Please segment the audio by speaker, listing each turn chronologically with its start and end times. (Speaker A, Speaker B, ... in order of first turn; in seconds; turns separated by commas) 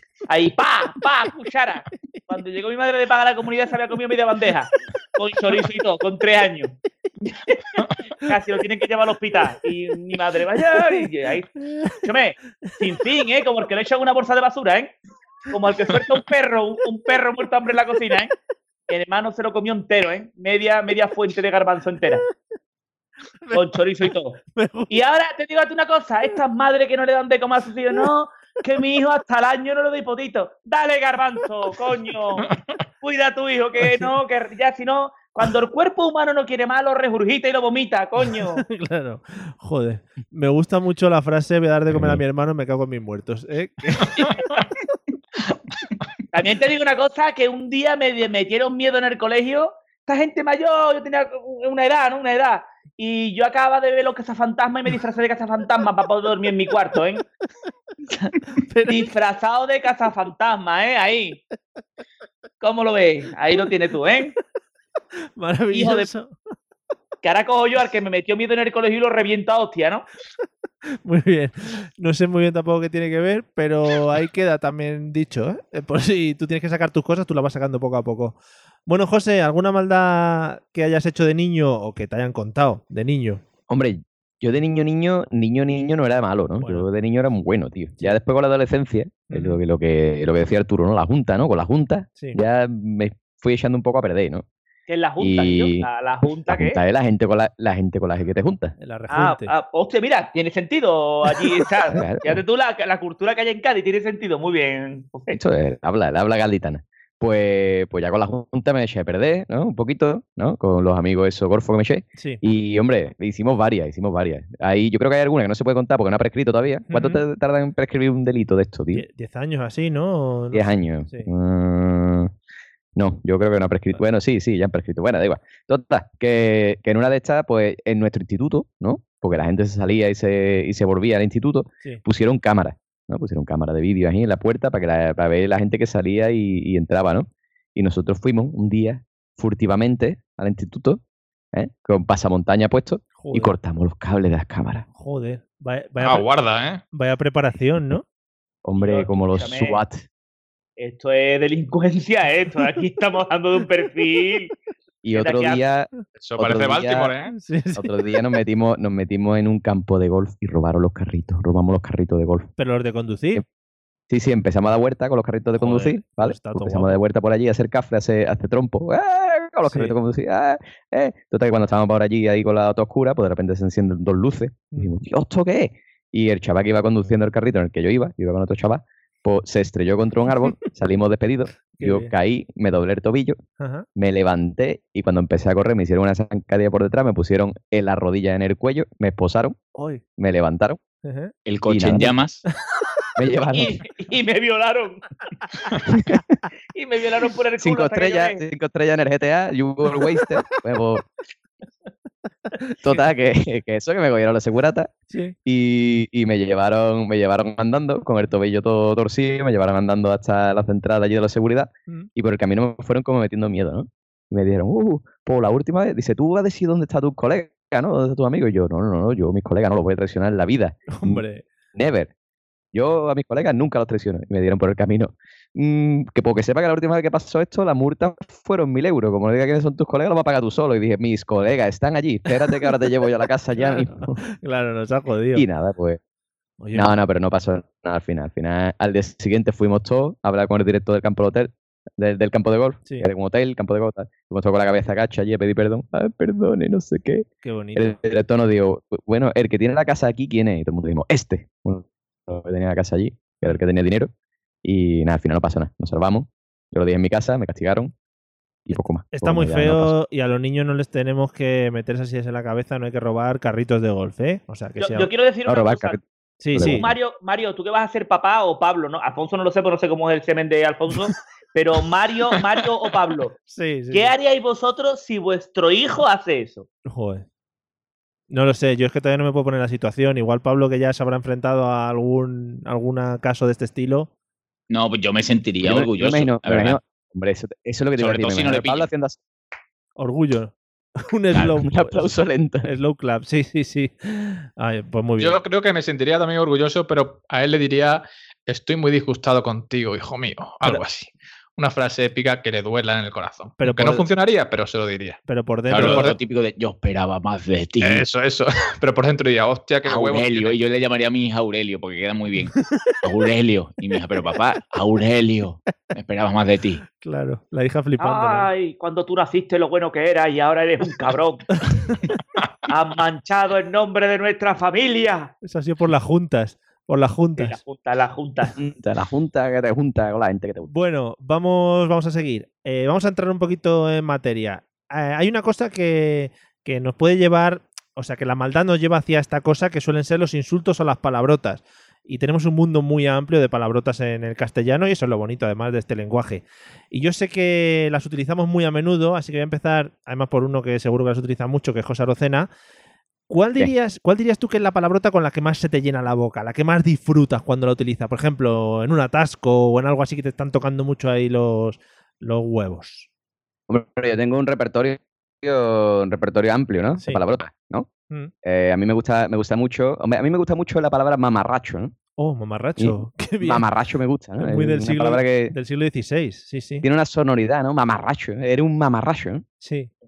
Speaker A: 0.3-6.7, Speaker A: 7.3-7.6, Speaker A: 8.3-11.5, Speaker A: 12.0-14.9, Speaker A: 15.5-18.3, Speaker A: 18.9-22.2, Speaker B: 23.4-23.8, Speaker A: 23.5-24.4, Speaker B: 24.5-24.9, Speaker A: 24.9-32.5, Speaker A: 33.0-38.6, Speaker B: 33.8-34.1, Speaker B: 38.4-44.4, Speaker C: 41.9-42.2, Speaker A: 46.3-57.2, Speaker B: 58.5-59.1, Speaker A: 58.9-61.4, Speaker A: 62.6-64.3, Speaker B: 65.4-66.3, Speaker A: 65.7-66.1, Speaker A: 67.2-70.1, Speaker B: 71.0-83.4, Speaker C: 83.7-94.5, Speaker B: 86.6-86.9, Speaker B: 89.3-89.6, Speaker A: 94.9-96.8, Speaker C: 95.2-95.9, Speaker C: 96.5-98.7, Speaker B: 98.8-99.5, Speaker A: 99.1-105.4, Speaker C: 101.9-102.4, Speaker C: 105.3-119.0, Speaker B: 116.9-117.2, Speaker B: 118.9-121.3, Speaker C: 120.5-122.3, Speaker C: 123.0-141.0, Speaker C: 141.5-144.8, Speaker B: 143.2-143.5, Speaker B: 145.0-146.3, Speaker D: 146.0-146.8, Speaker B: 146.9-148.1, Speaker C: 148.7-150.0, Speaker A: 148.8-149.8, Speaker A: 150.8-154.5, Speaker C: 155.0-157.1, Speaker A: 155.1-155.6, Speaker D: 156.2-157.3, Speaker B: 157.3-157.9, Speaker C: 157.8-162.5, Speaker B: 162.6-163.4, Speaker C: 164.1-183.4, Speaker B: 165.6-167.0, Speaker B: 169.7-169.9, Speaker B: 181.8-182.1, Speaker B: 183.6-183.9, Speaker C: 184.0-189.6, Speaker B: 189.8-190.0, Speaker C: 190.2-190.8, Speaker B: 191.1-191.3, Speaker E: 191.5-192.4, Speaker C: 191.7-192.1, Speaker C: 193.2-193.8, Speaker A: 193.6-195.0, Speaker C: 195.9-196.2, Speaker A: 196.7-198.4, Speaker C: 197.6-201.0, Speaker B: 202.7-203.0, Speaker C: 202.8-204.9, Speaker B: 205.1-205.3, Speaker C: 205.4-221.2, Speaker B: 220.9-221.4, Speaker C: 221.7-222.1, Speaker C: 222.7-234.2, Speaker B: 233.6-235.4, Speaker C: 235.3-236.0, Speaker B: 236.6-236.9, Speaker C: 236.7-254.1, Speaker B: 247.4-248.0, Speaker C: 254.6-257.9, Speaker C: 258.7-259.9, Speaker B: 259.1-265.1, Speaker A: 264.8-266.0, Speaker C: 265.5-266.0, Speaker B: 266.4-266.9, Speaker C: 266.5-266.9, Speaker A: 266.6-273.4, Speaker B: 273.5-274.1, Speaker A: 273.9-276.7, Speaker B: 276.9-277.3, Speaker B: 278.3-284.1, Speaker E: 284.7-286.8, Speaker C: 285.6-289.2, Speaker E: 288.0-288.9, Speaker B: 290.0-292.1, Speaker C: 291.3-292.7, Speaker B: 292.6-295.4, Speaker D: 295.2-305.2, Speaker B: 303.6-304.1, Speaker B: 305.3-306.1, Speaker E: 305.7-308.0, Speaker D: 305.7-306.2, Speaker D: 307.8-310.6, Speaker E: 309.9-316.8, Speaker B: 317.0-318.5, Speaker A: 318.0-321.4, Speaker A: 322.7-325.3, Speaker B: 325.4-327.6, Speaker A: 327.4-328.5, Speaker C: 328.6-330.7, Speaker B: 330.7-352.5, Speaker B: 353.3-363.1, Speaker C: 363.7-367.9, Speaker C: 368.4-371.9, Speaker B: 372.2-373.6, Speaker C: 372.8-375.6, Speaker B: 374.4-376.9, Speaker C: 376.8-379.4, Speaker B: 379.6-379.9